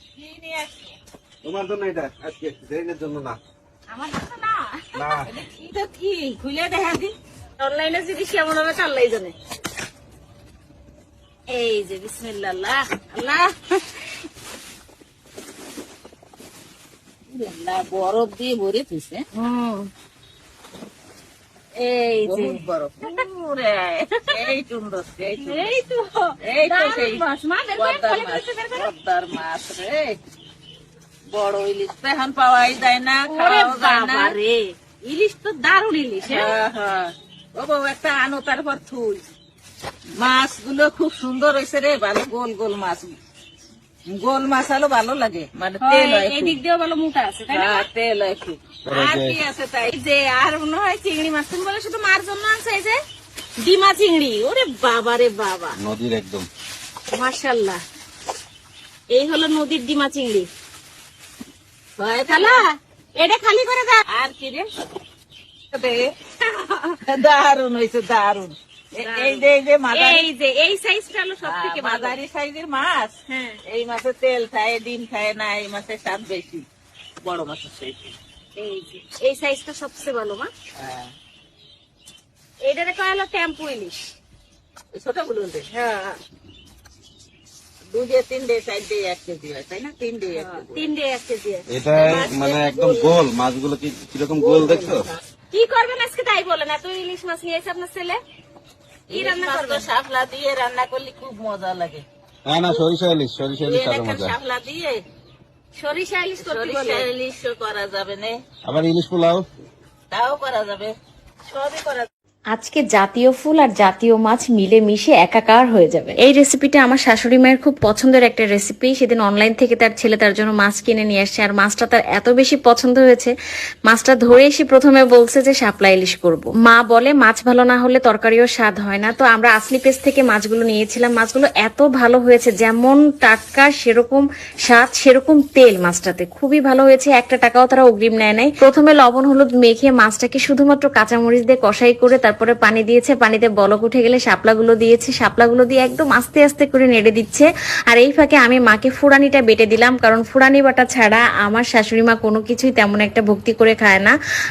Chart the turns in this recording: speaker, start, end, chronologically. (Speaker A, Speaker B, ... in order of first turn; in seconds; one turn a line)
Speaker A: 0.2-0.9
Speaker B: 1.4-3.4
Speaker C: 3.9-5.2
Speaker B: 5.0-5.2
Speaker A: 5.2-7.1
Speaker C: 7.6-9.3
Speaker C: 11.5-13.8
Speaker A: 17.3-19.2
Speaker C: 19.3-19.9
Speaker C: 21.8-23.2
Speaker A: 22.2-25.7
Speaker C: 25.4-28.9
Speaker A: 26.4-27.2
Speaker A: 27.8-30.1
Speaker A: 31.3-34.3
Speaker C: 33.3-36.5
Speaker A: 36.2-39.2
Speaker A: 40.2-43.1
Speaker A: 44.1-46.6
Speaker C: 45.8-47.9
Speaker A: 47.5-50.7
Speaker B: 48.9-49.4
Speaker C: 50.1-53.0
Speaker C: 53.6-55.7
Speaker B: 55.8-56.5
Speaker C: 57.1-57.8
Speaker C: 59.1-60.5
Speaker A: 62.0-62.6
Speaker C: 62.3-64.0
Speaker A: 64.1-64.7
Speaker A: 65.7-66.0
Speaker C: 66.4-67.0
Speaker A: 67.0-70.2
Speaker C: 69.0-72.1
Speaker A: 71.4-73.1
Speaker C: 73.3-73.6
Speaker A: 73.7-76.7
Speaker A: 77.2-78.1
Speaker C: 78.5-80.5
Speaker A: 80.8-81.1
Speaker C: 82.6-84.0
Speaker A: 84.9-85.7
Speaker C: 85.7-86.2
Speaker A: 87.9-90.9
Speaker C: 90.3-93.2
Speaker B: 91.7-95.1
Speaker C: 94.4-95.0
Speaker C: 95.5-98.2
Speaker A: 99.1-102.0
Speaker C: 99.1-99.8
Speaker B: 102.5-104.3
Speaker A: 103.6-105.0
Speaker C: 105.8-107.1
Speaker A: 106.4-108.4
Speaker B: 108.7-109.4
Speaker A: 110.1-110.9
Speaker A: 111.5-112.1
Speaker D: 112.5-123.3
Speaker D: 123.9-154.1